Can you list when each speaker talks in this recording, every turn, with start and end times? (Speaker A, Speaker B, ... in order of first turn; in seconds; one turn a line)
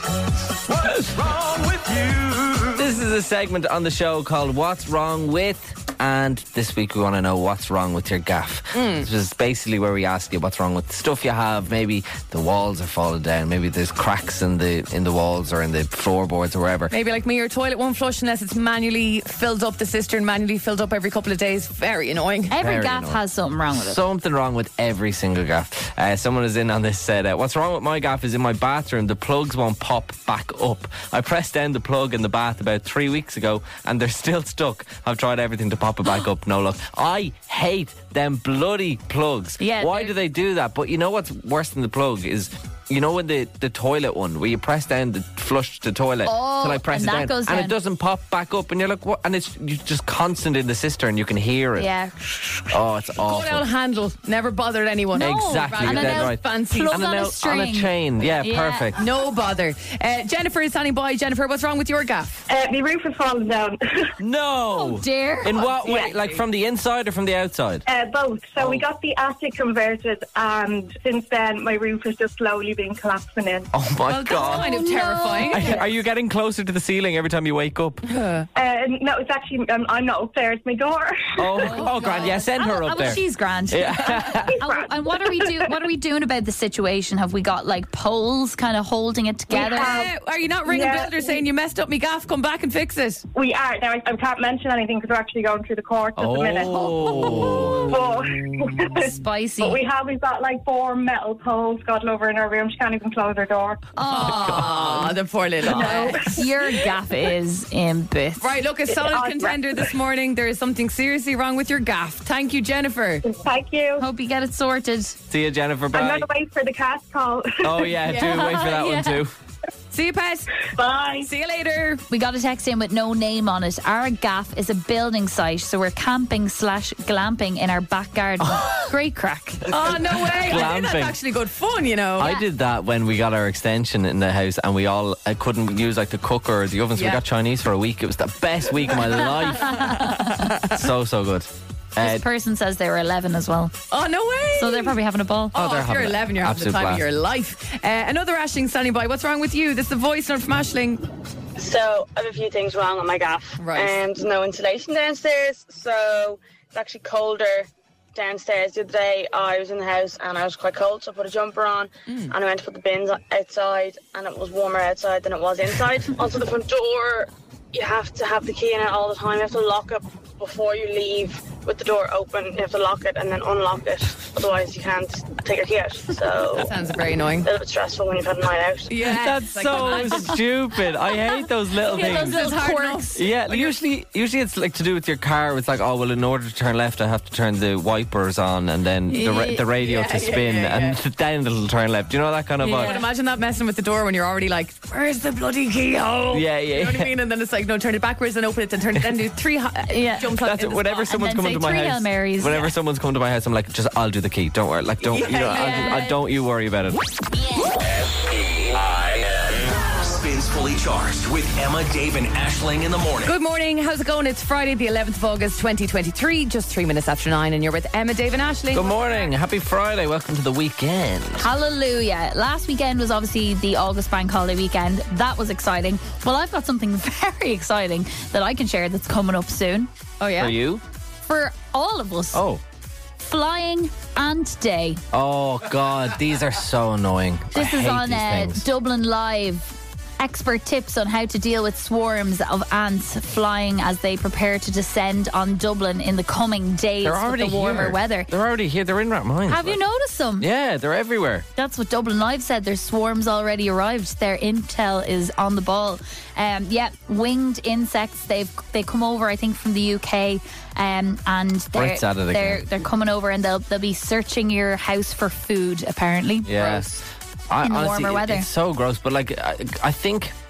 Speaker A: 1.0-2.8
Speaker B: 2.8-16.9
Speaker C: 8.7-9.1
Speaker C: 16.9-22.5
Speaker D: 22.5-24.0
Speaker B: 22.6-23.2
Speaker B: 23.7-51.9
Speaker D: 39.6-40.1
Speaker D: 46.2-47.8
Speaker D: 51.8-52.7
Speaker B: 52.7-53.6
Speaker C: 53.2-57.0
Speaker D: 55.2-58.9
Speaker B: 55.2-59.0
Speaker C: 59.0-62.4
Speaker E: 62.5-64.1
Speaker B: 64.2-67.8
Speaker D: 64.7-65.7
Speaker E: 65.8-66.2
Speaker E: 67.9-73.7
Speaker B: 68.6-68.9
Speaker B: 73.7-74.7
Speaker C: 74.1-75.9
Speaker D: 74.3-75.8
Speaker B: 75.5-78.0
Speaker C: 78.1-78.5
Speaker E: 78.5-81.6
Speaker B: 81.4-84.6
Speaker D: 81.6-90.1
Speaker E: 84.6-85.7
Speaker C: 89.5-93.2
Speaker E: 89.7-90.1
Speaker E: 90.7-91.3
Speaker E: 93.3-103.9
Speaker B: 96.1-98.1
Speaker D: 99.0-99.8
Speaker D: 104.0-104.7
Speaker C: 104.1-106.4
Speaker B: 104.4-105.0
Speaker D: 105.7-108.6
Speaker E: 105.8-106.4
Speaker C: 108.4-113.3
Speaker E: 109.1-109.5
Speaker E: 113.3-114.0
Speaker D: 114.0-115.2
Speaker B: 115.3-116.3
Speaker E: 115.9-117.9
Speaker B: 117.6-119.3
Speaker C: 118.1-118.5
Speaker D: 118.2-119.2
Speaker C: 119.9-120.6
Speaker E: 120.8-121.3
Speaker C: 121.2-122.0
Speaker D: 122.1-129.7
Speaker B: 128.4-128.8
Speaker C: 129.7-132.3
Speaker B: 130.2-131.2
Speaker B: 132.2-142.2
Speaker D: 132.2-132.5
Speaker C: 136.9-137.2
Speaker C: 138.9-139.3
Speaker D: 139.6-140.5
Speaker D: 142.0-143.8
Speaker C: 143.9-145.0
Speaker D: 144.6-145.6
Speaker C: 145.5-151.0
Speaker B: 145.6-147.0
Speaker F: 151.6-176.8
Speaker C: 153.6-154.0
Speaker C: 162.1-162.3
Speaker C: 176.5-177.5
Speaker F: 177.4-179.0
Speaker C: 178.9-180.4
Speaker B: 179.1-182.4
Speaker D: 179.8-180.3
Speaker C: 181.9-183.8
Speaker D: 181.9-183.2
Speaker B: 183.2-193.0
Speaker D: 189.1-189.7
Speaker C: 189.7-191.0
Speaker C: 192.6-201.1
Speaker D: 192.8-193.0
Speaker B: 196.3-197.1
Speaker D: 199.9-200.3
Speaker B: 200.3-207.1
Speaker D: 201.1-202.7
Speaker C: 205.1-206.2
Speaker A: 207.8-213.4
Speaker C: 213.2-219.0
Speaker B: 218.7-221.5
Speaker D: 221.4-229.9
Speaker C: 230.2-230.6
Speaker B: 230.4-230.8
Speaker D: 231.3-232.4
Speaker B: 232.3-232.6
Speaker D: 233.2-235.0
Speaker B: 235.1-238.6
Speaker D: 237.5-248.3
Speaker B: 247.0-249.8
Speaker D: 249.5-250.5
Speaker B: 250.4-251.5
Speaker D: 251.6-266.9
Speaker B: 261.7-262.6
Speaker B: 266.5-270.4
Speaker D: 267.6-268.5